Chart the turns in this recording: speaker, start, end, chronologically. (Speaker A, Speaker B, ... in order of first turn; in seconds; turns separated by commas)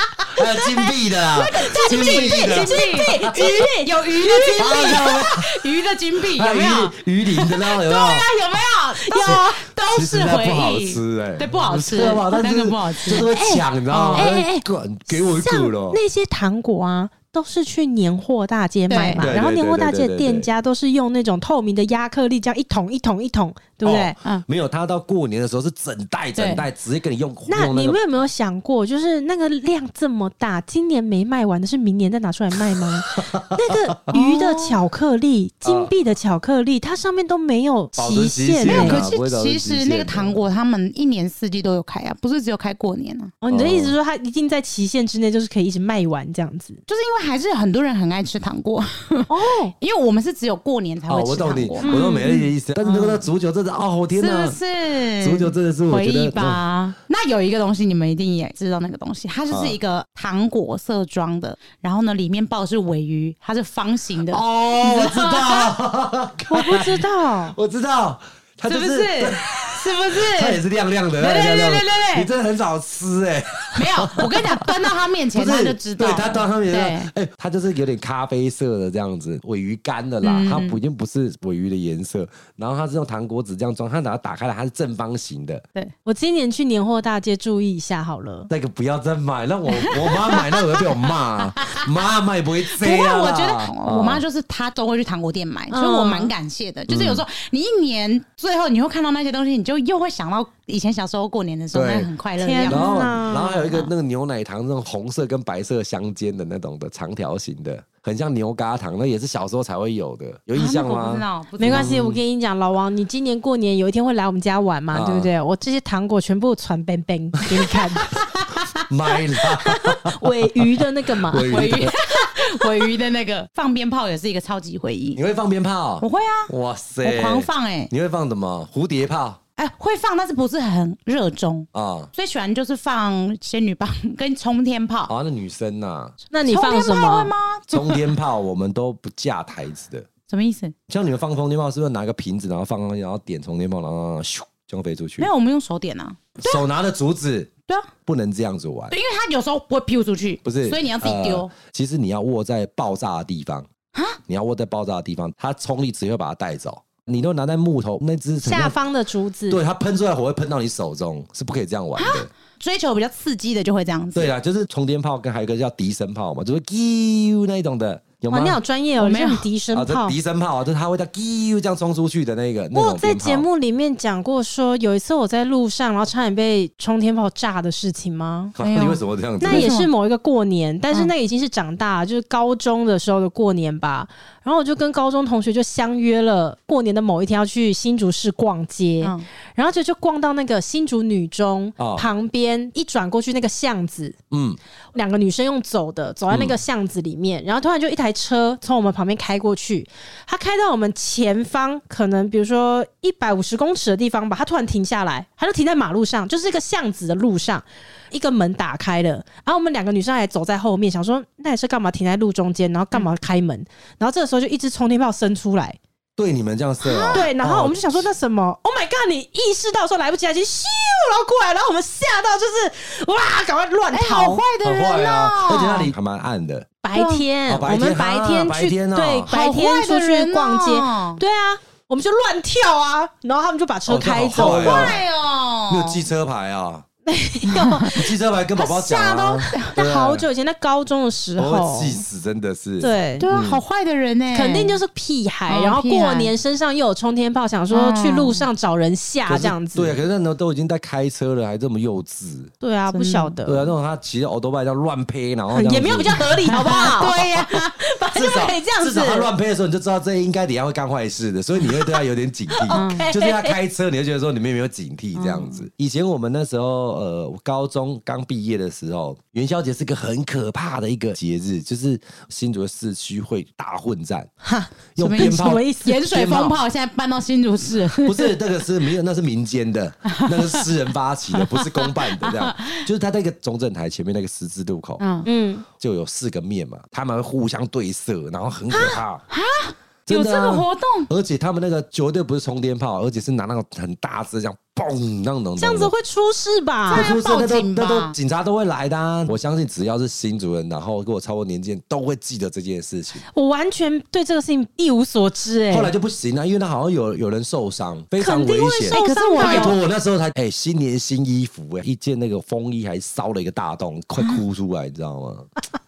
Speaker A: 0.3-3.5, Speaker B: 0.9-13.3, Speaker C: 1.7-4.9, Speaker A: 4.5-5.5, Speaker A: 6.3-8.3, Speaker C: 9.0-9.6, Speaker A: 9.2-16.0, Speaker C: 13.2-24.1, Speaker B: 13.9-14.4, Speaker B: 18.9-19.3, Speaker A: 19.2-20.5, Speaker A: 23.8-28.0, Speaker B: 26.4-26.6, Speaker C: 27.5-39.0, Speaker A: 33.1-34.1, Speaker B: 34.1-34.8, Speaker A: 35.6-35.9, Speaker A: 38.0-40.4, Speaker B: 38.6-43.3, Speaker C: 43.4-46.8, Speaker A: 43.5-43.9, Speaker B: 46.9-53.2, Speaker C: 49.3-49.7, Speaker A: 51.1-54.6, Speaker C: 51.8-52.2, Speaker B: 54.1-65.7, Speaker A: 55.2-56.6, Speaker A: 59.5-59.8, Speaker A: 64.3-85.6, Speaker C: 66.5-67.5, Speaker B: 68.7-70.6, Speaker B: 71.2-72.3, Speaker B: 73.7-77.1, Speaker B: 80.2-80.8, Speaker C: 86.0-88.5, Speaker A: 88.5-94.2, Speaker B: 89.8-90.8, Speaker B: 92.7-103.9, Speaker C: 95.7-96.3, Speaker A: 96.9-97.2, Speaker A: 101.7-102.1, Speaker C: 102.4-103.5, Speaker A: 102.6-112.2, Speaker B: 110.5-112.0, Speaker C: 111.6-118.0, Speaker A: 114.9-115.3, Speaker A: 117.5-118.2, Speaker A: 118.9-122.0, Speaker C: 119.7-121.5, Speaker B: 121.5-125.2, Speaker A: 125.1-129.4, Speaker B: 126.0-126.5, Speaker B: 127.0-127.9, Speaker B: 129.6-135.1, Speaker A: 131.7-132.1, Speaker A: 135.1-136.2, Speaker C: 136.3-137.3, Speaker B: 136.4-138.1, Speaker A: 137.7-140.1, Speaker B: 140.3-140.7, Speaker A: 140.9-145.3, Speaker B: 145.2-146.6, Speaker A: 146.4-148.9, Speaker B: 148.9-151.5, Speaker A: 150.4-153.7, Speaker B: 153.9-154.2, Speaker A: 154.3-158.8, Speaker C: 158.4-159.6, Speaker A: 159.5-162.3, Speaker B: 162.0-164.3, Speaker A: 164.1-168.6, Speaker C: 168.3-170.1, Speaker B: 169.0-169.5, Speaker A: 169.7-173.4, Speaker C: 172.7-178.5, Speaker A: 178.6-179.7, Speaker B: 178.6-179.9, Speaker C: 179.4-194.1, Speaker B: 189.0-189.3, Speaker A: 191.8-192.1, Speaker A: 194.3-194.6, Speaker C: 194.9-215.8, Speaker A: 196.3-196.6, Speaker A: 216.2-218.0, Speaker B: 216.8-217.3, Speaker C: 217.1-224.4, Speaker B: 223.9-225.9, Speaker A: 224.6-226.7, Speaker C: 226.8-234.9, Speaker B: 226.9-227.3, Speaker A: 227.5-229.3, Speaker B: 229.3-231.2, Speaker A: 233.9-235.0, Speaker B: 234.3-236.0, Speaker A: 235.7-236.8, Speaker C: 237.1-238.0, Speaker B: 237.5-238.0, Speaker A: 237.9-240.3, Speaker B: 238.6-239.7, Speaker C: 239.7-242.0, Speaker A: 241.4-243.6, Speaker C: 242.8-243.2, Speaker B: 243.2-244.8, Speaker C: 244.3-249.9, Speaker B: 245.5-246.3, Speaker B: 247.7-248.5, Speaker A: 249.3-252.5, Speaker C: 252.6-253.6, Speaker B: 252.9-253.4, Speaker A: 253.4-257.5, Speaker C: 255.5-257.1, Speaker B: 256.5-257.7, Speaker C: 257.8-259.3, Speaker A: 258.1-274.3, Speaker C: 262.7-263.6, Speaker B: 262.7-263.1, Speaker B: 265.1-265.7, Speaker C: 274.4-276.1, Speaker A: 274.9-276.6, Speaker B: 275.0-278.3, Speaker A: 278.0-285.0, Speaker B: 280.1-280.6, Speaker B: 281.3-282.9, Speaker B: 285.0-285.3, Speaker C: 285.2-285.6, Speaker A: 285.8-289.2, Speaker B: 289.3-291.1, Speaker A: 290.1-295.9, Speaker C: 295.6-297.1, Speaker B: 296.9-298.1, Speaker A: 296.9-303.2, Speaker C: 303.3-305.9, Speaker A: 305.7-315.5, Speaker C: 308.2-309.8, Speaker B: 308.9-309.8